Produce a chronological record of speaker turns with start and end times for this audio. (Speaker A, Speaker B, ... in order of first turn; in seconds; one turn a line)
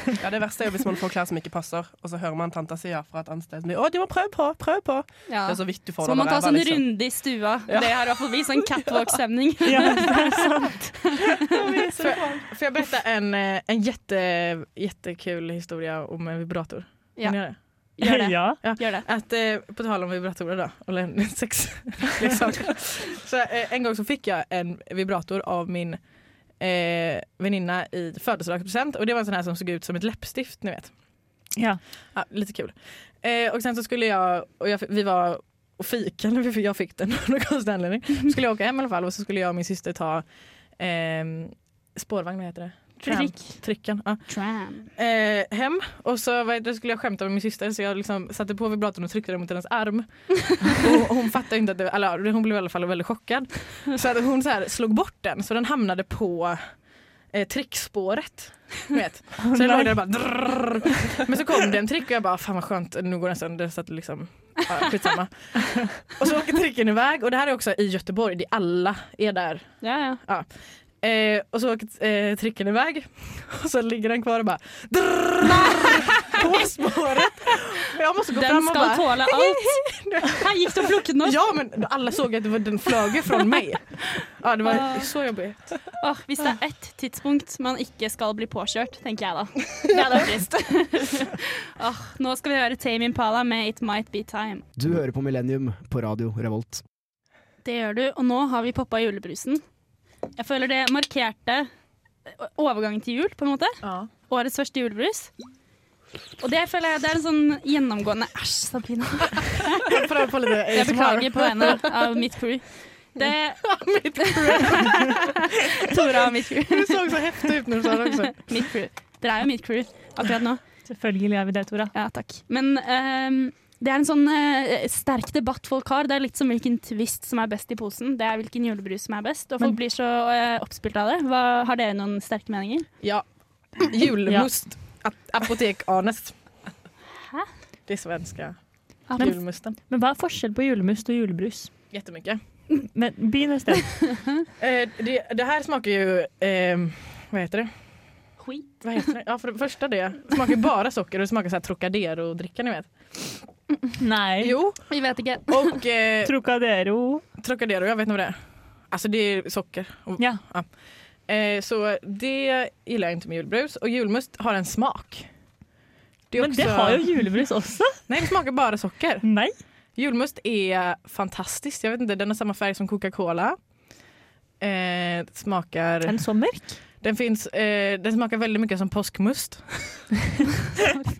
Speaker A: 0.2-6.9
Speaker B: 5.3-10.8
Speaker A: 7.7-8.5
Speaker C: 9.7-11.2
Speaker D: 11.6-17.6
Speaker A: 11.9-12.4
Speaker B: 17.2-19.1
Speaker C: 18.0-18.6
Speaker D: 18.6-26.0
Speaker D: 26.6-30.9
Speaker C: 31.6-31.8
Speaker D: 32.1-44.4
Speaker C: 43.0-43.6
Speaker B: 44.3-44.9
Speaker D: 44.9-56.8
Speaker D: 57.3-70.5
Speaker C: 59.4-60.3
Speaker B: 69.8-70.2
Speaker D: 71.0-85.6
Speaker B: 75.5-76.4
Speaker B: 78.3-81.4
Speaker B: 83.3-83.5
Speaker B: 84.2-85.1
Speaker B: 86.0-94.7
Speaker E: 94.8-96.8
Speaker B: 97.6-99.6
Speaker B: 100.4-101.7
Speaker B: 102.3-105.3
Speaker D: 103.8-104.1
Speaker B: 106.4-110.0
Speaker D: 109.9-111.9
Speaker B: 110.7-120.6
Speaker D: 113.2-118.4
Speaker C: 120.9-121.9
Speaker B: 121.9-132.9
Speaker D: 133.8-136.4
Speaker C: 134.3-134.5
Speaker B: 137.2-137.5
Speaker D: 137.9-139.8
Speaker C: 139.2-141.7
Speaker D: 141.9-142.4
Speaker C: 142.8-144.2
Speaker D: 144.6-147.7
Speaker B: 148.4-148.7
Speaker D: 148.8-153.5
Speaker C: 154.0-154.6
Speaker D: 154.4-156.4
Speaker B: 154.9-155.8
Speaker C: 156.2-157.2
Speaker D: 157.4-165.3
Speaker D: 166.3-167.2
Speaker C: 166.4-168.0
Speaker D: 168.1-173.6
Speaker C: 169.2-169.6
Speaker D: 174.6-176.4
Speaker C: 176.1-176.8
Speaker D: 177.0-180.1